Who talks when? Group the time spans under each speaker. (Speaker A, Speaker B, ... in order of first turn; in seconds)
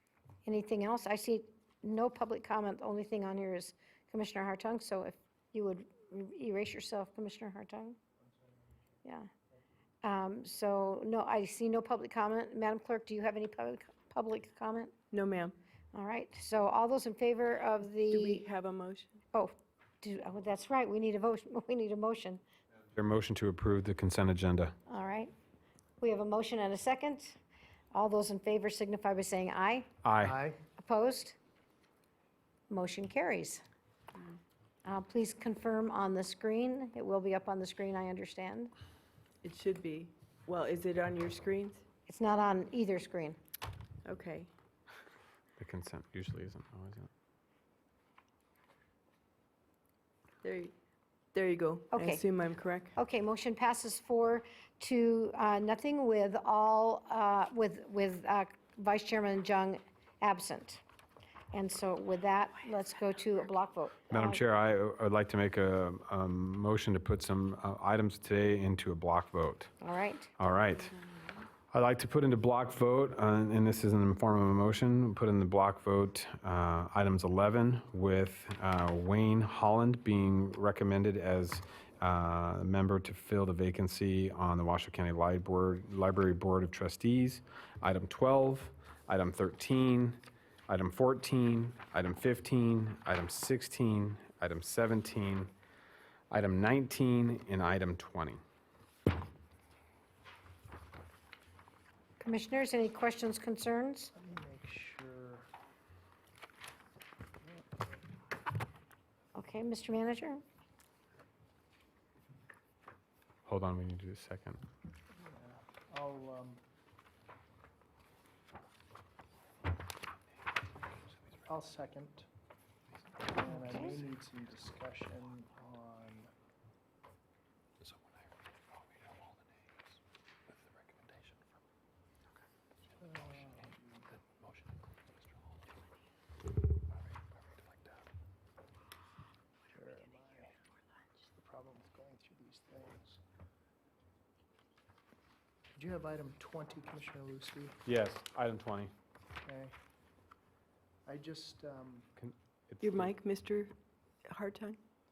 Speaker A: 0.5-8.0, 10.0-14.9, 15.9-18.4, 19.3-22.4, 24.9-25.3, 26.0-27.4, 27.9-29.9, 30.8-31.4, 32.7-33.6, 34.9-38.7, 42.1-43.4, 51.9-52.2, 53.0-60.8, 61.5-64.4, 69.8-70.3, 102.2-104.1, 109.3-110.4
Speaker B: 15.1-15.6, 18.1-19.2, 39.4-41.8, 44.0-44.5, 50.4-50.7, 51.3-53.0, 152.8-153.7, 154.3-154.8
Speaker C: 22.9-24.8, 30.0-30.4, 45.6-47.1, 64.1-69.7, 70.4-70.9, 71.7-95.5, 96.3-98.4, 113.5-114.6, 147.9-148.9, 152.2-153.1
Speaker D: 30.2-30.6, 104.2-105.5, 115.2-116.6, 121.5-122.3, 123.3-126.3, 133.0-134.1, 139.7-140.5, 141.3-143.2, 145.8-147.8, 149.4-149.8, 151.1-152.1